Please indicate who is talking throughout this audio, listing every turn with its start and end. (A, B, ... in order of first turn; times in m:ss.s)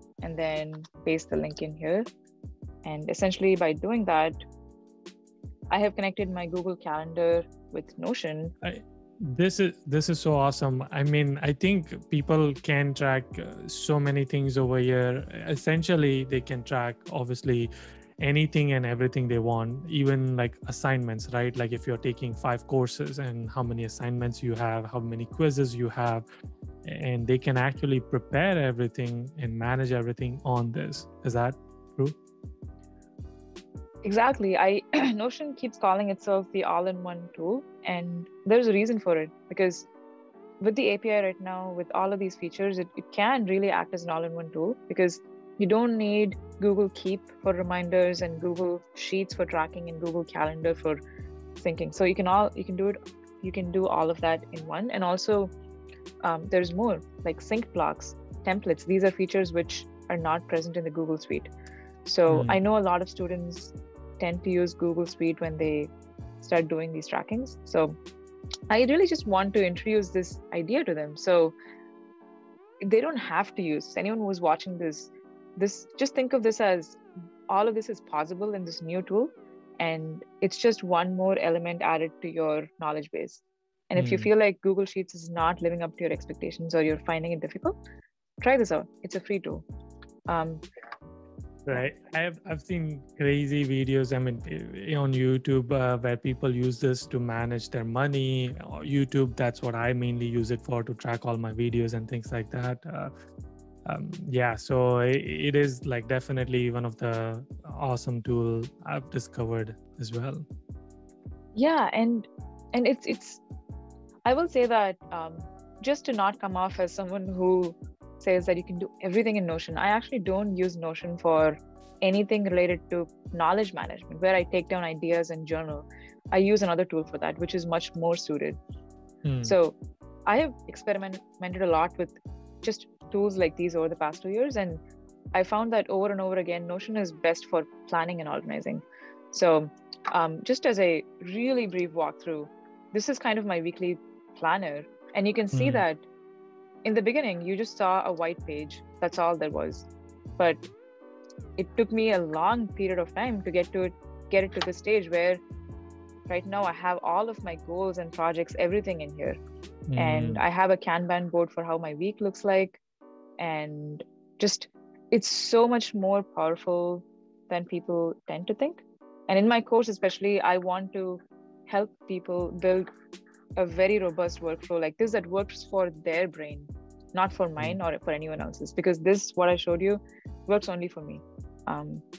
0:00.2-0:02.1 A
0:02.8-0:04.4 A
0:05.7-0:08.5 A
0:08.6-0:26.3 B
0:26.9-0:32.2 B
0:34.0-0:39.9 A
0:40.6-0:51.0 A
0:51.6-0:55.5 A
0:56.2-1:01.5 A
1:02.0-1:08.0 A
1:02.3-1:02.6 B
1:08.7-1:11.6 A
1:12.8-1:27.8 A
1:24.0-1:24.3 B
1:28.4-1:29.7 A
1:30.3-1:30.6 A
1:31.6-1:43.1 B
1:43.9-1:50.4 B
1:51.6-1:53.4 A
1:54.3-2:08.6 A
2:09.2-2:09.6 B
2:09.4-2:09.8 A
2:10.3-2:14.8 A
2:15.3-2:26.0 A
2:25.5-2:25.8 B
2:26.8-2:30.7 A
2:31.6-2:35.4 A
2:36.3-2:39.4 A
2:39.9-2:40.4 B
2:40.0-2:42.8 A
2:43.4-2:52.9 A
2:53.6-3:02.0 A